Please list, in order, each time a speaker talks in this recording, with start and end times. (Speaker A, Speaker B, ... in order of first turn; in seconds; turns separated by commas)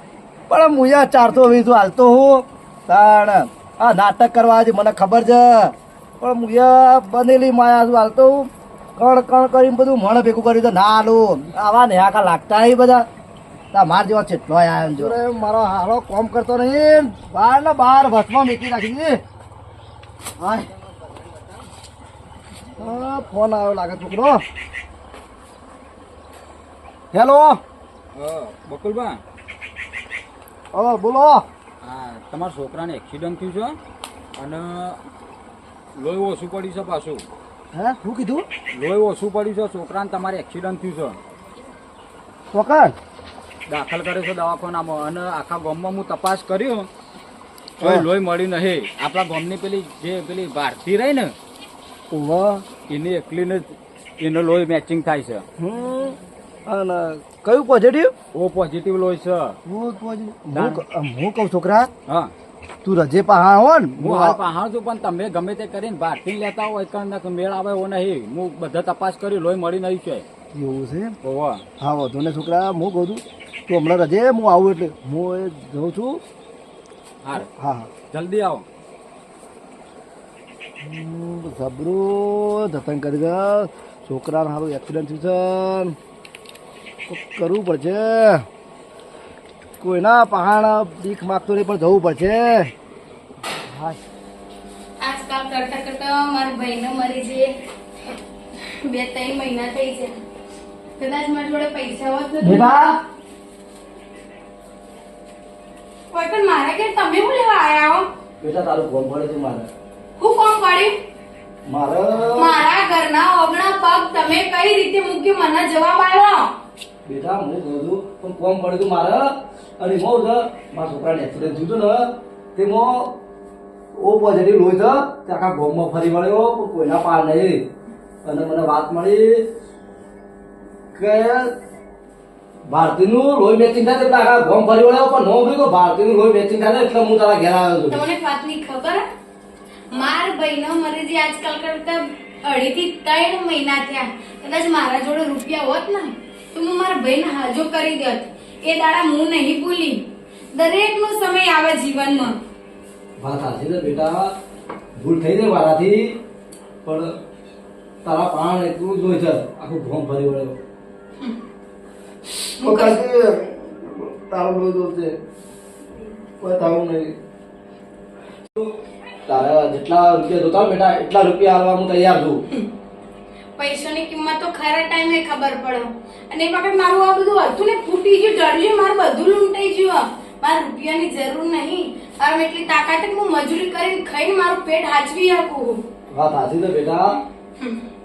Speaker A: 0.5-13.0, Speaker A: 13.7-19.2, Speaker A: 20.4-20.7, Speaker A: 22.8-24.4, Speaker A: 27.1-27.6, Speaker B: 28.1-29.2, Speaker A: 30.7-31.4, Speaker B: 31.8-33.8, Speaker B: 34.4-35.0, Speaker B: 36.0-37.2, Speaker A: 37.7-38.5, Speaker B: 38.7-41.2, Speaker A: 42.5-42.9, Speaker B: 43.7-46.9, Speaker B: 47.8-51.3, Speaker A: 47.8-48.0, Speaker A: 52.1-52.6, Speaker B: 52.9-55.4, Speaker A: 55.6-58.1, Speaker B: 58.3-59.6, Speaker A: 59.6-61.9, Speaker B: 60.5-60.8, Speaker B: 62.1-62.3, Speaker A: 62.8-64.4, Speaker B: 64.0-70.2, Speaker A: 70.5-71.2, Speaker B: 71.2-71.6, Speaker A: 71.8-76.2, Speaker B: 77.2-77.5, Speaker A: 77.3-77.9, Speaker B: 78.1-78.7, Speaker A: 80.8-86.0, Speaker A: 87.1-88.4, Speaker A: 89.8-92.7, Speaker A: 93.6-94.0, Speaker C: 95.0-97.5, Speaker C: 98.8-100.1, Speaker C: 101.0-102.7, Speaker A: 102.4-103.0, Speaker C: 106.1-108.0, Speaker A: 108.4-109.7, Speaker C: 110.2-110.9, Speaker A: 111.7-112.6, Speaker C: 112.3-116.4, Speaker A: 117.0-123.1, Speaker A: 123.9-127.6, Speaker A: 128.2-129.4, Speaker A: 130.9-131.5, Speaker A: 132.7-138.0, Speaker C: 137.9-139.0, Speaker C: 139.9-150.0, Speaker C: 150.5-152.3, Speaker A: 153.2-154.3, Speaker A: 154.9-156.2, Speaker A: 156.8-157.1, Speaker A: 158.0-160.6, Speaker C: 162.6-163.0, Speaker A: 162.6-165.2, Speaker A: 166.4-167.1, Speaker A: 169.2-172.4, Speaker C: 173.6-185.8, Speaker A: 186.1-187.2